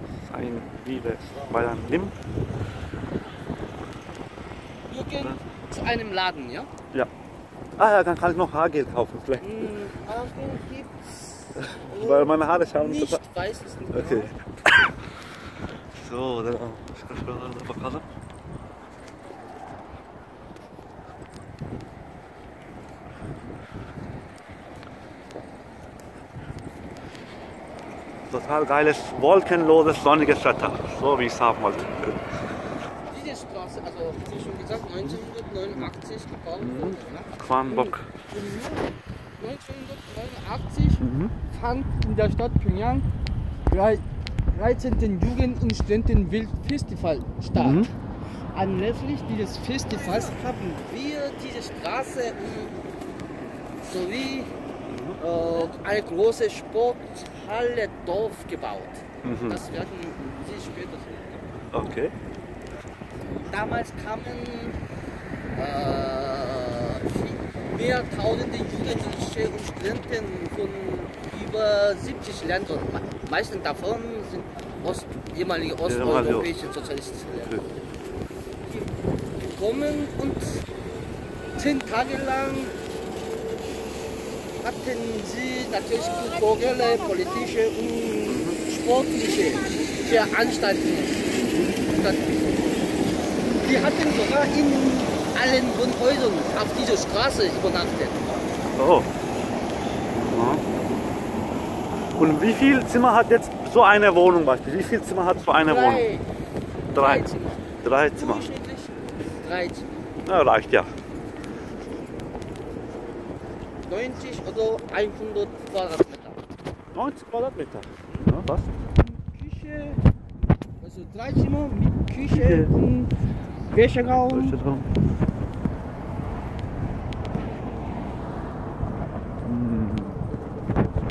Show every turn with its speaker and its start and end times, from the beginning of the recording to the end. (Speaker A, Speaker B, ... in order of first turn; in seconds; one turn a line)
Speaker A: 0.3-2.1
Speaker B: 1.3-1.8
Speaker B: 4.9-6.7
Speaker A: 7.8-9.6
Speaker B: 9.4-14.3
Speaker A: 11.6-13.2
Speaker A: 13.9-15.0
Speaker A: 15.9-18.1
Speaker A: 28.3-32.2
Speaker B: 33.1-38.9
Speaker A: 36.6-38.1
Speaker B: 39.4-43.1
Speaker A: 41.0-41.3
Speaker B: 43.7-47.9
Speaker A: 47.5-47.9
Speaker B: 48.5-52.8
Speaker B: 53.8-54.5
Speaker A: 54.9-55.2
Speaker B: 55.2-62.0
Speaker A: 59.2-59.6
Speaker A: 61.7-62.1
Speaker B: 63.4-64.8
Speaker B: 65.5-77.6
Speaker A: 75.8-76.5
Speaker B: 78.6-80.7
Speaker B: 81.5-82.8
Speaker B: 84.6-92.4
Speaker A: 88.3-88.6
Speaker A: 91.5-91.7
Speaker B: 93.5-98.6
Speaker A: 98.8-99.1
Speaker A: 100.3-100.6
Speaker A: 102.2-106.1
Speaker B: 105.6-106.2
Speaker A: 106.9-107.2
Speaker B: 106.9-109.9
Speaker A: 107.8-108.5
Speaker A: 110.2-110.9
Speaker B: 113.8-116.4
Speaker A: 116.9-118.7
Speaker B: 118.8-120.0
Speaker B: 120.8-123.1
Speaker A: 122.3-122.7
Speaker B: 123.7-124.6
Speaker A: 124.3-124.9
Speaker A: 129.4-130.2